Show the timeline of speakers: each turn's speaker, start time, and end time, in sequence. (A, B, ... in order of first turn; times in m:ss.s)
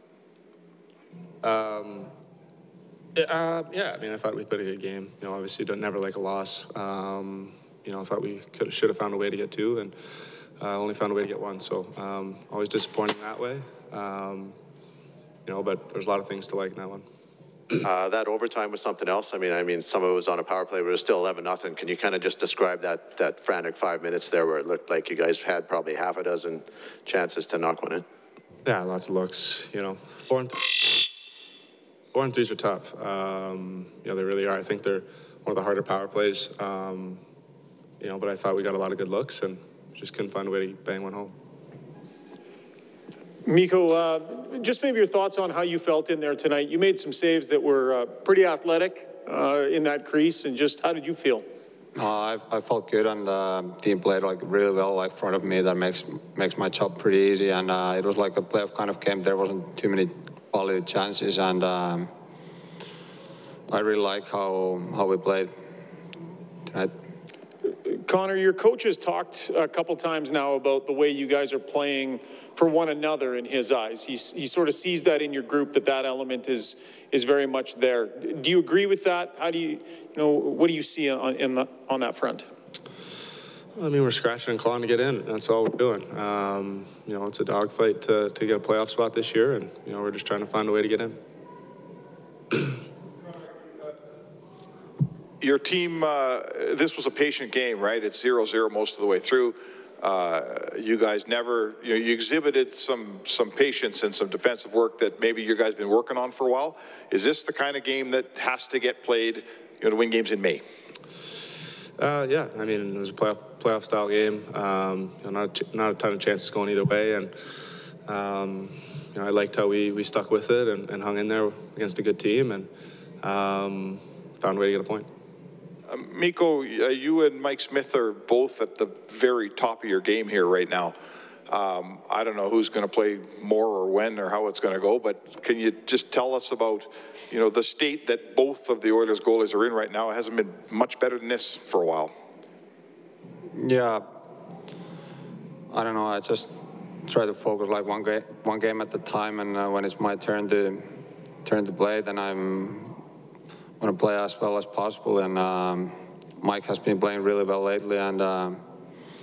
0:01.4-0:02.1 A
0:03.2-0:10.0 A
0:10.6-0:14.6 A
0:15.4-0:17.0 A
0:17.8-0:28.0 B
0:28.7-0:31.0 A
0:32.1-0:37.2 A
0:38.0-0:41.3 A
0:43.4-0:51.4 C
0:52.0-1:02.1 D
1:03.7-1:05.5 D
1:07.8-1:22.5 C
1:23.8-1:31.2 A
1:35.4-1:50.6 E
1:52.0-1:57.3 A
1:58.1-2:02.7 A
2:03.2-2:05.1 A
2:05.9-2:10.9 E
2:11.5-2:22.1 E
2:23.6-2:24.0 D
2:25.7-2:26.5 D
2:27.1-2:30.8 D
2:31.4-2:33.0 D
2:33.8-2:38.6 D